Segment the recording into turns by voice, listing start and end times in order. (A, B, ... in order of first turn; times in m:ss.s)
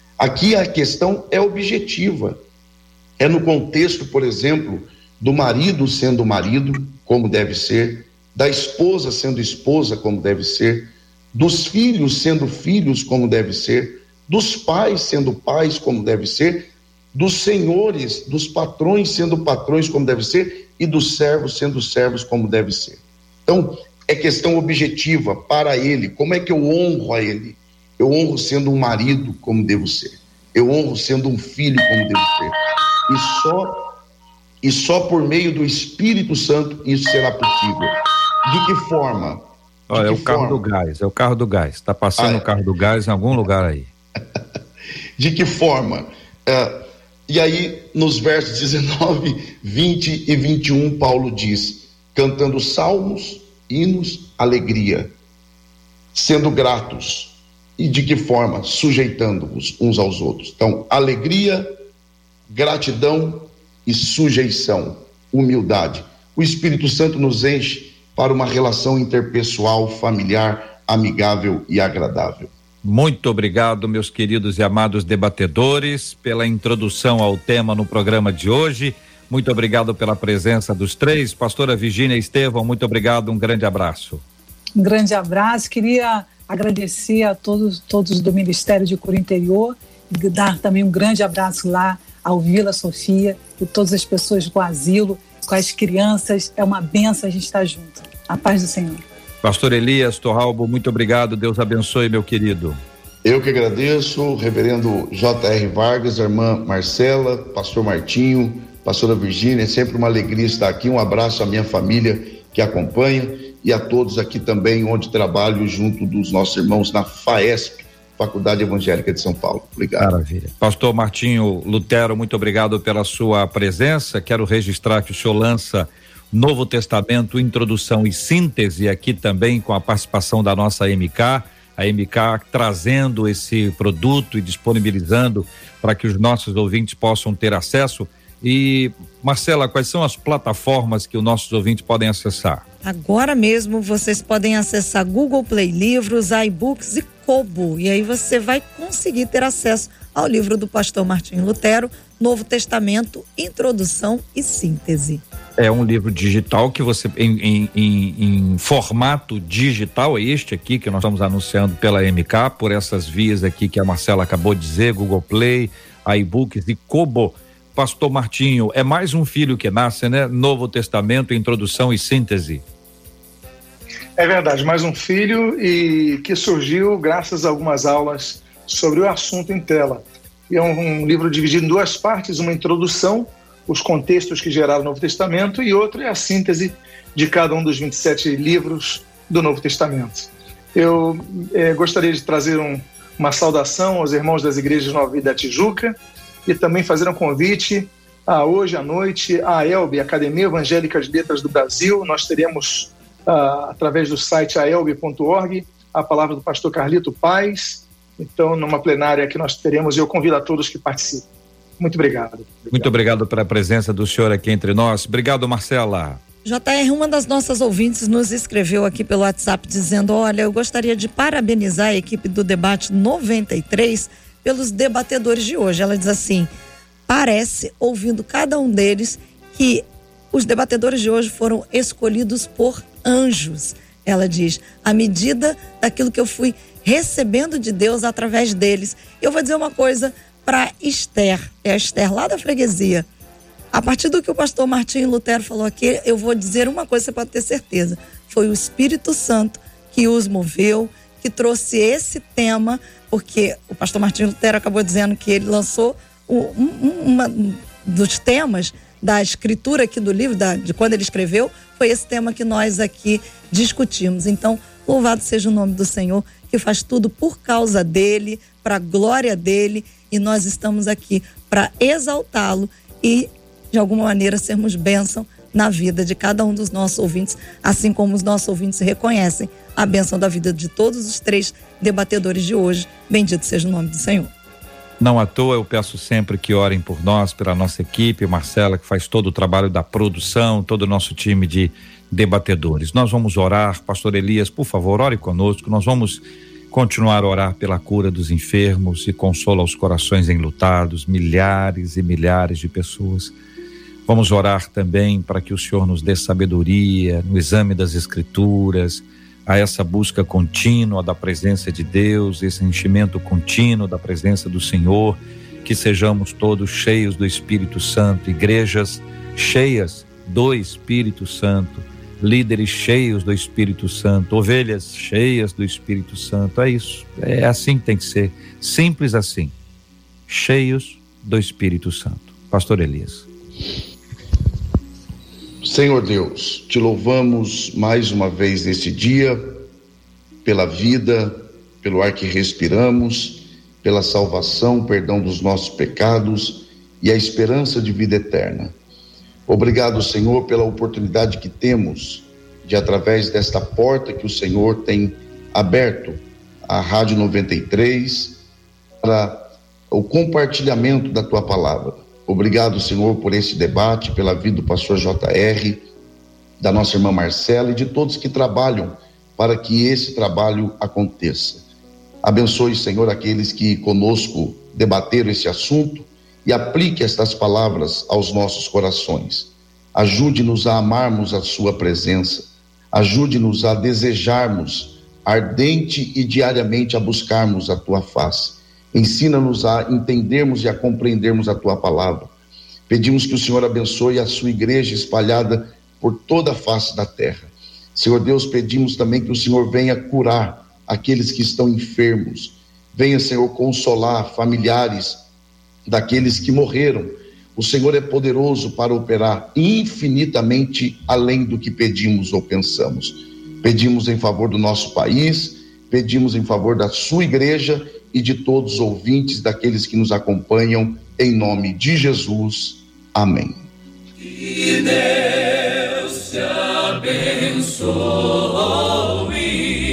0:00.2-0:02.4 A
0:03.2-0:33.8 A
0:34.6-0:40.7 A
0:39.9-0:43.9 B
0:42.2-0:42.5 A
0:45.2-0:55.1 A
0:56.1-1:01.7 A
1:02.5-1:12.5 A
1:12.8-1:24.2 B
1:24.8-1:39.0 C
1:39.4-1:42.8 B
1:43.2-2:00.1 A
2:00.0-2:22.6 B
2:22.8-2:35.2 D
2:35.6-2:52.6 B
2:54.2-3:16.0 E
3:16.5-3:31.3 E
3:31.8-3:32.9 E
3:32.7-3:36.2 B
3:36.4-3:46.5 D
3:47.1-4:03.1 D
4:03.7-4:44.3 D
4:45.0-5:03.3 B
5:04.1-5:29.5 B
5:30.3-5:33.3 B
5:35.6-5:39.6 A
5:40.4-5:48.8 A
5:49.5-5:58.4 A
5:59.0-6:05.9 A
6:06.6-6:11.6 A
6:12.2-6:32.3 A
6:32.9-6:45.2 A
6:45.9-7:03.7 A
7:07.2-7:08.2 B